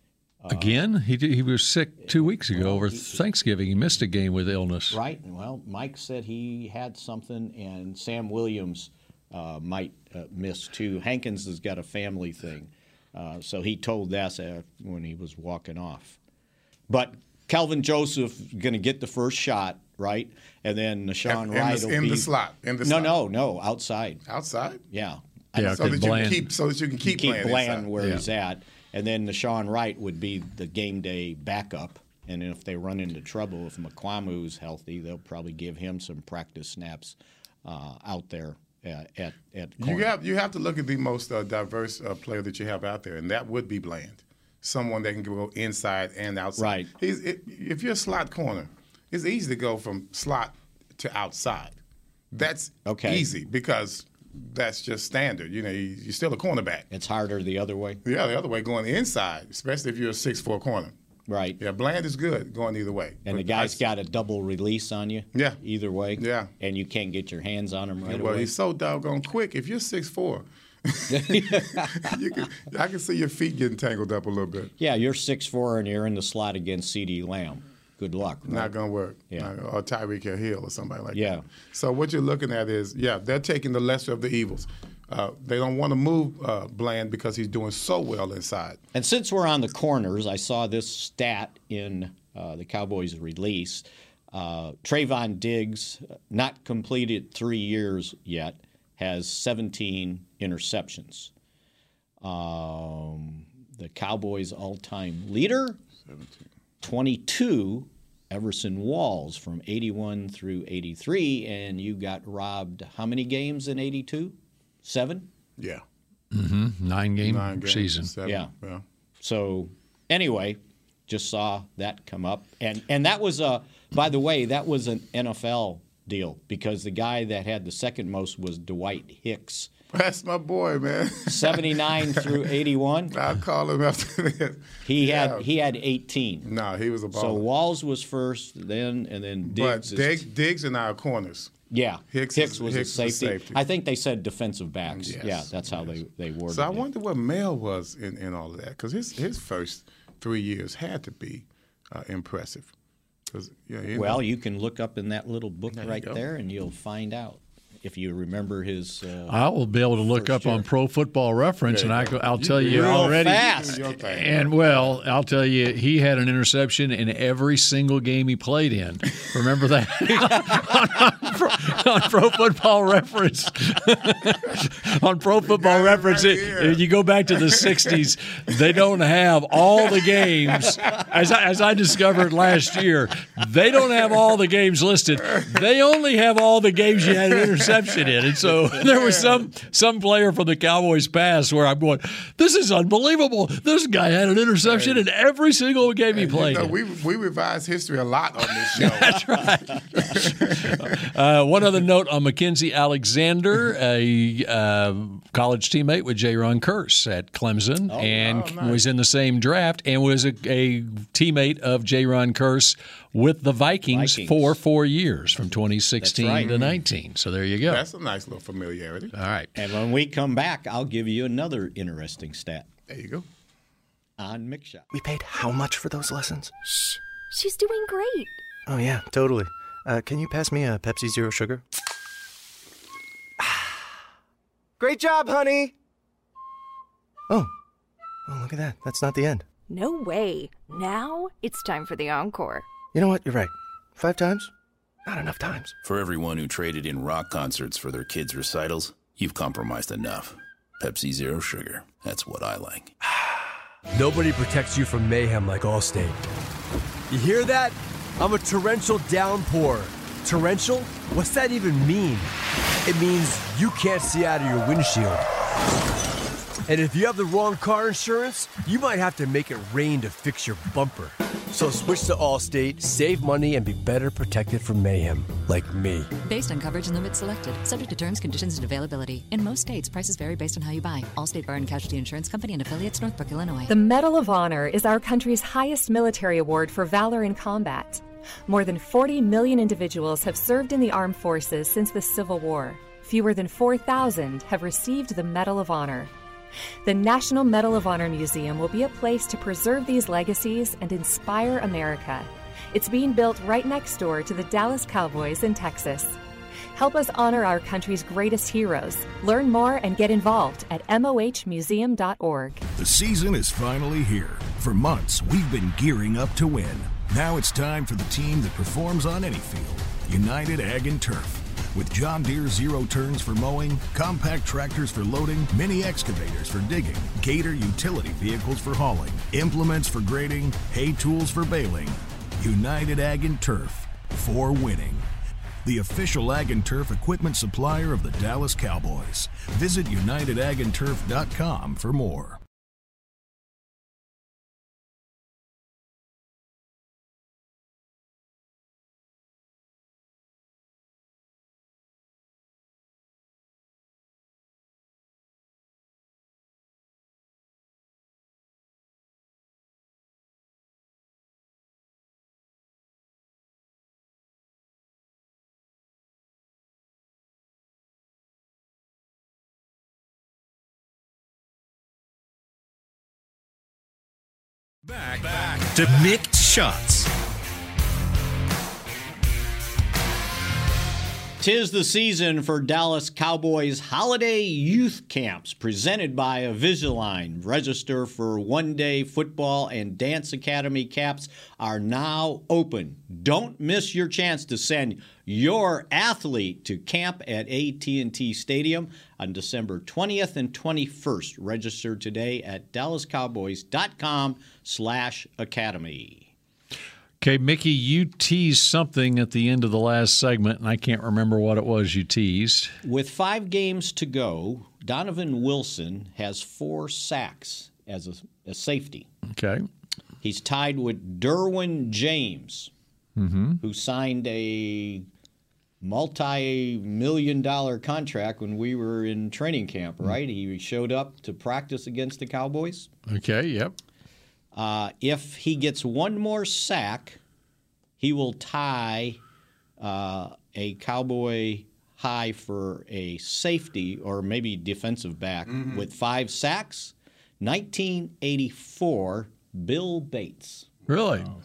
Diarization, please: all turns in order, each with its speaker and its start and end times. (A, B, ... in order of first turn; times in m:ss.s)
0:00.4-0:00.8 A
0:00.5-0:05.0 B
0:02.0-0:03.2 A
0:04.9-0:16.2 A
0:16.9-0:22.3 A
0:21.2-0:23.2 C
0:22.8-0:24.2 A
0:24.3-0:24.8 C
0:24.9-0:25.9 A
0:25.6-0:26.5 B
0:25.7-0:27.9 C
0:27.0-0:40.1 A
0:39.8-0:51.8 C
0:46.6-0:46.9 A
0:52.3-0:56.9 C
0:52.8-0:53.3 A
0:56.9-0:58.0 A
0:58.0-1:00.9 C
1:01.3-1:01.6 A
1:01.6-1:03.8 C
1:03.2-1:08.5 A
1:05.3-1:05.6 C
1:06.2-1:06.5 C
1:08.0-1:14.7 C
1:11.1-1:12.2 A
1:14.8-1:18.7 A
1:18.4-1:28.8 C
1:21.1-1:21.4 A
1:28.9-1:41.3 A
1:42.2-1:45.8 A
1:46.0-1:46.4 C
1:46.8-1:55.3 A
1:55.6-1:55.8 C
1:56.3-1:58.1 B
1:57.2-1:58.8 C
1:58.2-1:58.5 A
1:59.2-2:09.7 A
2:09.9-2:12.4 C
2:11.2-2:13.2 A
2:13.1-2:15.5 C
2:14.8-2:16.5 A
2:16.4-2:17.4 C
2:17.1-2:20.2 A
2:19.4-2:21.5 C
2:21.7-2:26.8 A
2:22.1-2:23.6 C
2:24.9-2:26.0 C
2:26.5-2:32.7 C
2:33.3-2:34.2 C
2:33.9-2:39.4 A
2:35.7-2:36.2 C
2:39.3-3:16.7 B
2:40.2-2:40.6 A
2:41.7-2:45.0 C
2:42.7-2:43.8 A
2:55.4-2:56.8 C
3:08.5-3:09.4 C
3:14.6-3:15.0 C
3:16.1-3:21.0 C
3:18.5-3:37.8 B
3:27.9-3:28.2 A
3:28.1-3:28.8 C
3:33.9-3:34.6 A
3:36.0-3:36.5 A
3:36.4-3:36.8 C
3:37.6-3:39.1 C
3:39.1-3:39.5 B
3:39.5-3:42.7 A
3:42.9-3:43.2 C
3:44.2-3:44.8 A
3:44.9-3:46.5 D
3:47.3-3:48.4 E
3:48.7-3:51.6 D
3:53.4-3:53.7 D
3:54.8-3:55.7 D
3:58.3-3:59.4 D
3:59.7-4:02.7 E
4:02.9-4:04.5 D
4:05.0-4:05.7 D
4:05.8-4:12.9 F
4:13.9-4:16.3 G
4:17.1-4:22.3 G
4:22.8-4:25.2 G
4:26.7-4:36.1 G
4:36.2-4:43.7 H
4:43.7-4:56.1 I
4:56.8-5:06.2 I
5:06.7-5:12.6 I
5:12.8-5:35.0 J
5:35.6-5:42.4 J
6:14.9-6:17.1 K
6:21.4-6:46.3 A
6:47.2-6:52.7 B
6:52.8-6:59.1 A
6:59.3-6:59.6 B
7:00.2-7:02.7 A
7:03.2-7:03.6 B
7:03.6-7:05.0 A
7:05.8-7:12.9 A
7:13.1-7:13.7 B
7:14.5-7:17.2 A
7:18.0-7:19.2 A
7:19.8-7:30.7 A
7:30.9-7:31.3 B